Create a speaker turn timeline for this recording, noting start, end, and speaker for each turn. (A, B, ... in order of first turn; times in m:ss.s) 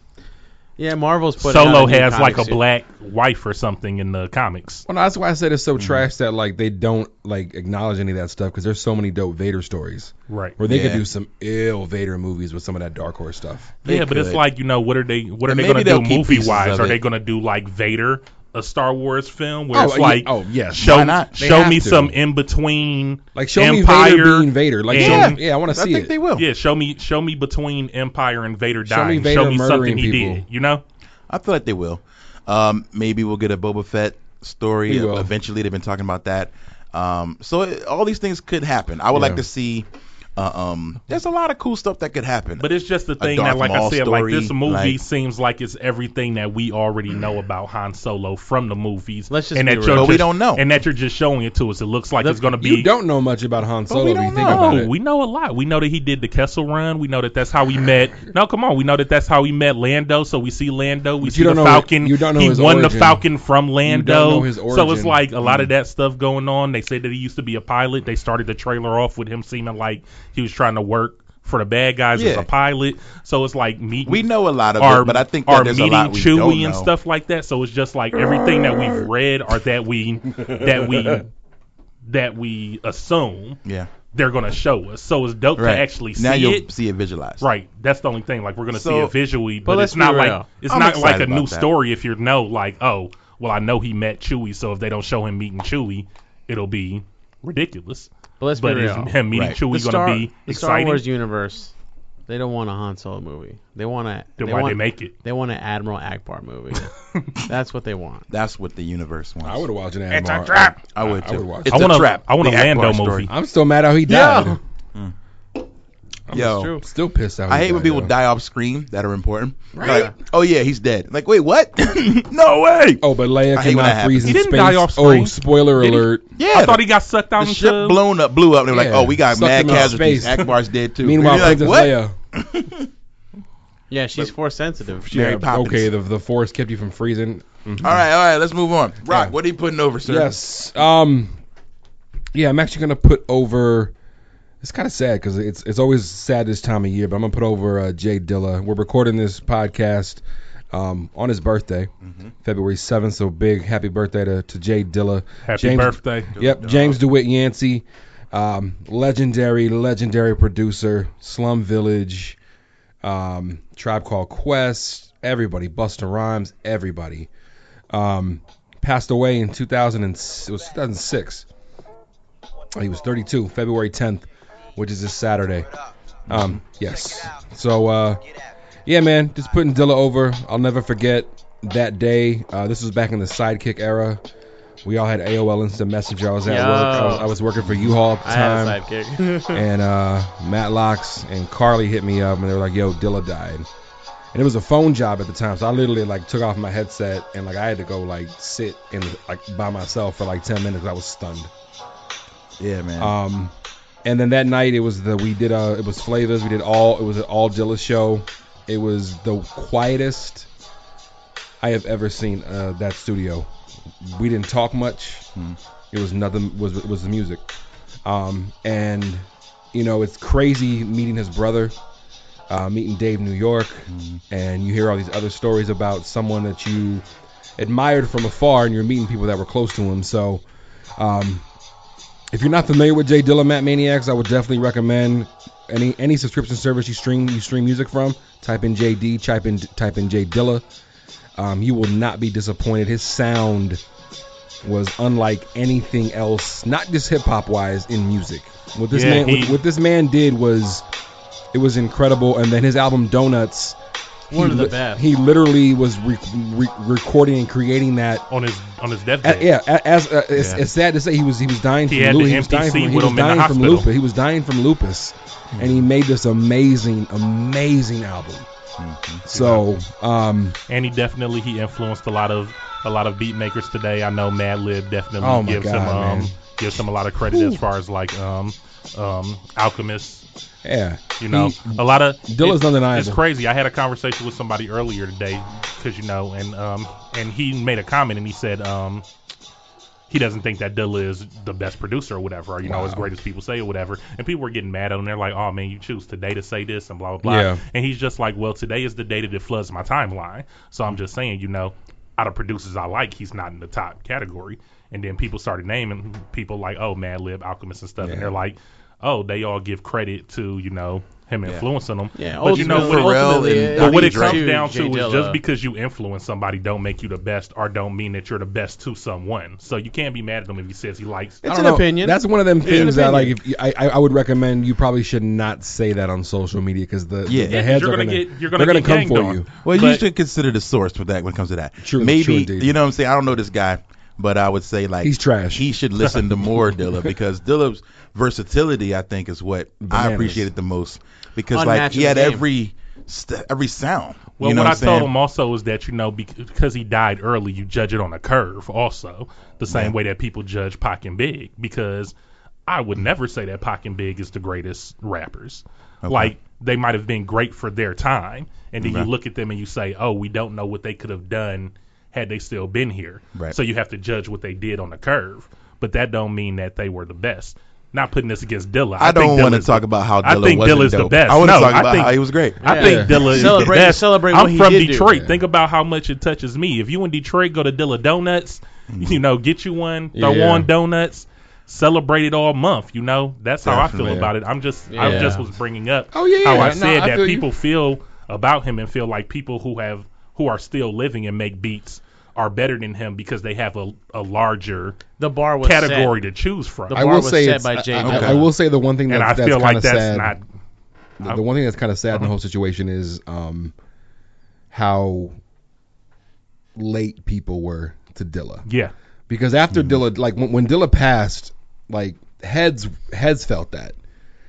0:00.8-0:02.6 A
0:01.4-0:04.8 B
0:04.9-0:13.7 C
0:05.8-0:06.0 D
0:10.3-0:10.6 B
0:10.6-0:11.0 D
0:13.8-0:14.4 D
0:13.8-0:25.4 B
0:15.4-0:17.0 D
0:19.7-0:22.2 C
0:20.8-0:21.5 D
0:23.4-0:26.1 C
0:24.9-0:26.4 D
0:26.4-0:30.8 B
0:28.8-0:30.4 C
0:31.3-0:42.7 D
0:34.9-0:35.3 C
0:39.1-0:39.4 C
0:42.6-0:52.9 B
0:43.2-0:45.0 D
0:49.3-0:50.3 A
0:49.9-0:50.6 D
0:52.2-0:54.9 C
0:53.9-0:54.9 D
0:54.4-1:21.3 B
1:01.2-1:03.3 C
1:03.8-1:05.2 C
1:05.4-1:05.7 D
1:12.1-1:12.5 D
1:14.1-1:16.9 D
1:20.4-1:21.1 C
1:22.1-1:23.6 B
1:23.6-1:23.9 D
1:24.1-1:26.7 B
1:25.6-1:27.4 D
1:27.4-1:41.0 B
1:28.7-1:29.1 D
1:29.6-1:30.5 A
1:30.7-1:31.7 D
1:38.4-1:39.2 A
1:39.3-1:39.6 D
1:39.7-1:41.7 A
1:42.3-1:46.9 A
1:44.4-1:45.1 B
1:47.4-1:48.3 A
1:48.3-1:49.7 D
1:49.4-1:52.0 C
1:50.9-1:53.3 D
1:51.7-1:53.3 B
1:53.3-1:54.6 C
1:54.1-1:54.6 A
1:56.3-1:58.1 C
1:56.3-1:56.8 D
1:56.3-1:56.8 A
1:57.5-2:04.4 D
1:59.7-2:00.1 C
1:59.8-2:00.1 A
2:03.0-2:06.3 C
2:04.2-2:08.0 B
2:06.4-2:06.8 D
2:07.4-2:12.9 D
2:08.7-2:12.1 C
2:13.9-2:15.4 A
2:15.0-2:15.9 D
2:15.1-2:18.0 C
2:17.8-2:20.3 D
2:19.1-2:19.3 C
2:20.0-2:21.4 C
2:22.3-2:23.9 C
2:24.6-2:31.9 C
2:32.0-2:32.3 D
2:32.4-2:42.4 C
2:35.4-2:36.3 B
2:36.4-2:37.0 D
2:43.0-2:47.3 C
2:47.9-2:51.4 C
2:52.7-2:55.7 C
2:56.3-2:56.6 D
2:56.3-2:58.2 C
2:58.8-3:04.2 C
3:04.8-3:08.8 C
3:06.4-3:07.3 A
3:07.6-3:07.9 D
3:08.2-3:09.6 A
3:09.5-3:13.7 C
3:14.3-3:21.5 C
3:22.6-3:23.1 D
3:23.0-3:23.5 C
3:24.0-3:30.5 C
3:31.6-3:33.5 C
3:34.0-3:35.3 C
3:35.9-3:37.4 C
3:38.0-3:41.8 C
3:42.5-3:47.0 C
3:43.9-3:44.2 D
3:47.6-3:50.4 C
3:51.0-3:51.4 C
3:52.3-4:00.6 C
4:01.4-4:03.8 C
4:04.6-4:10.9 C
4:08.9-4:09.6 B
4:11.5-4:13.8 C
4:14.3-4:18.3 C
4:14.3-4:15.0 A
4:18.3-4:19.5 B
4:19.2-4:28.5 C
4:20.4-4:20.6 D
4:21.9-4:23.9 B
4:25.5-4:25.8 D
4:28.8-4:29.2 D
4:29.3-4:30.6 C
4:29.3-4:29.6 B
4:30.7-4:40.2 B
4:35.2-4:36.4 C
4:37.3-4:37.6 C
4:40.6-4:43.2 C
4:41.2-4:49.0 B
4:50.1-5:21.4 B
4:52.6-4:53.1 C
4:57.2-4:57.6 C
5:08.0-5:08.3 C
5:12.1-5:15.4 A
5:12.4-5:14.4 D
5:21.4-5:23.4 A
5:21.4-5:29.5 C
5:22.6-5:22.9 D
5:27.3-5:27.6 D
5:27.4-5:30.0 B
5:29.6-5:45.1 D
5:31.8-5:32.8 C
5:35.0-5:35.7 C
5:39.8-5:40.5 C
5:41.5-5:42.4 A
5:44.4-5:52.1 B
5:49.7-5:49.9 D
5:52.7-6:35.0 B
5:56.0-5:56.3 D
5:58.8-5:59.1 D
6:09.0-6:13.6 D
6:12.6-6:15.2 A
6:12.8-6:13.2 C
6:15.1-6:15.4 C
6:18.9-6:19.2 D
6:20.1-6:20.7 C
6:23.6-6:24.3 D
6:24.0-6:24.3 C
6:24.9-6:25.4 A
6:25.0-6:25.4 C
6:26.1-6:27.5 C
6:35.2-6:36.1 A
6:35.6-6:37.1 B
6:36.9-6:38.5 A
6:36.9-6:40.4 C
6:38.0-6:38.4 D
6:39.1-6:40.4 B
6:41.2-6:43.7 C
6:44.7-6:45.4 C
6:46.8-6:48.6 C
6:48.7-6:48.9 B
6:49.3-6:54.0 C